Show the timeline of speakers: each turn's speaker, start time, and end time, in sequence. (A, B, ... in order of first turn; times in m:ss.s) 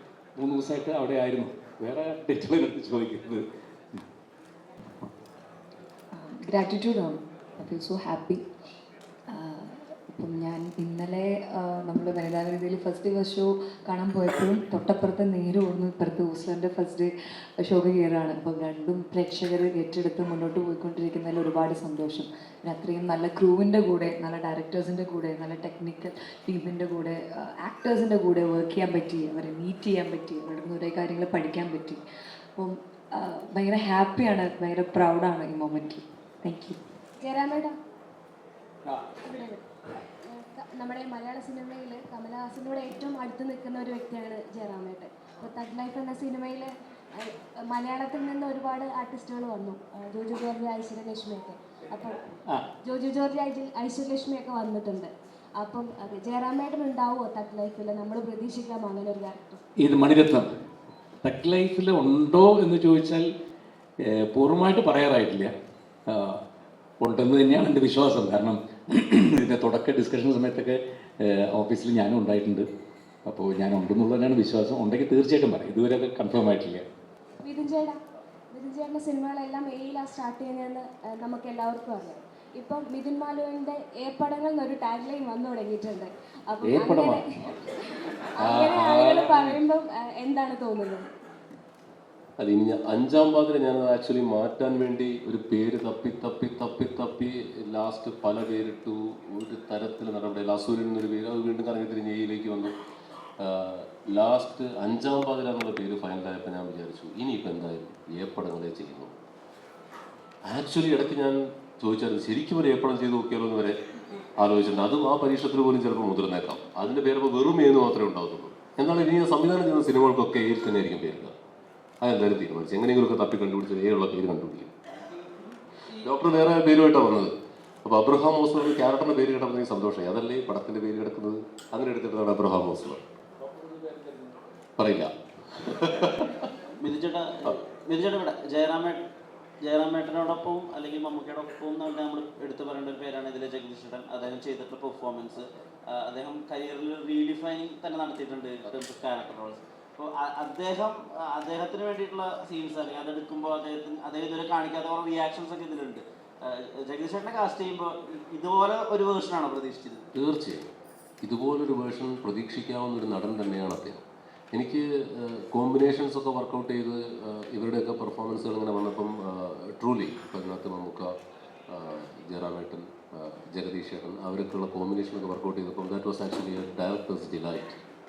0:00.4-0:03.4 A
0:06.1-0:08.4 B
0:09.3-0:32.0 B
0:32.6-0:36.8 B
0:37.2-0:37.7 C
0:39.2-0:39.6 C
0:40.3-0:52.2 C
0:52.8-0:59.6 C
0:59.8-1:00.5 A
1:01.2-1:03.3 A
1:04.0-1:05.5 A
1:06.1-1:06.4 A
1:07.0-1:12.7 A
1:13.2-1:16.8 A
1:17.4-1:18.0 C
1:18.5-1:27.2 C
1:26.6-1:27.2 A
1:28.1-1:31.0 C
1:28.4-1:29.6 A
1:32.4-1:42.7 D
1:43.4-1:49.1 D
1:50.4-1:53.8 D
1:54.4-2:01.3 D
2:02.0-2:04.7 D
2:05.9-2:07.3 D
2:07.8-2:13.0 D
2:14.8-2:16.4 D
2:16.8-2:19.0 E
2:19.6-2:25.4 E
2:26.0-2:36.0 E
2:36.9-2:40.0 E
2:40.1-2:40.7 D
2:41.2-2:51.1 D
2:51.7-2:57.8 D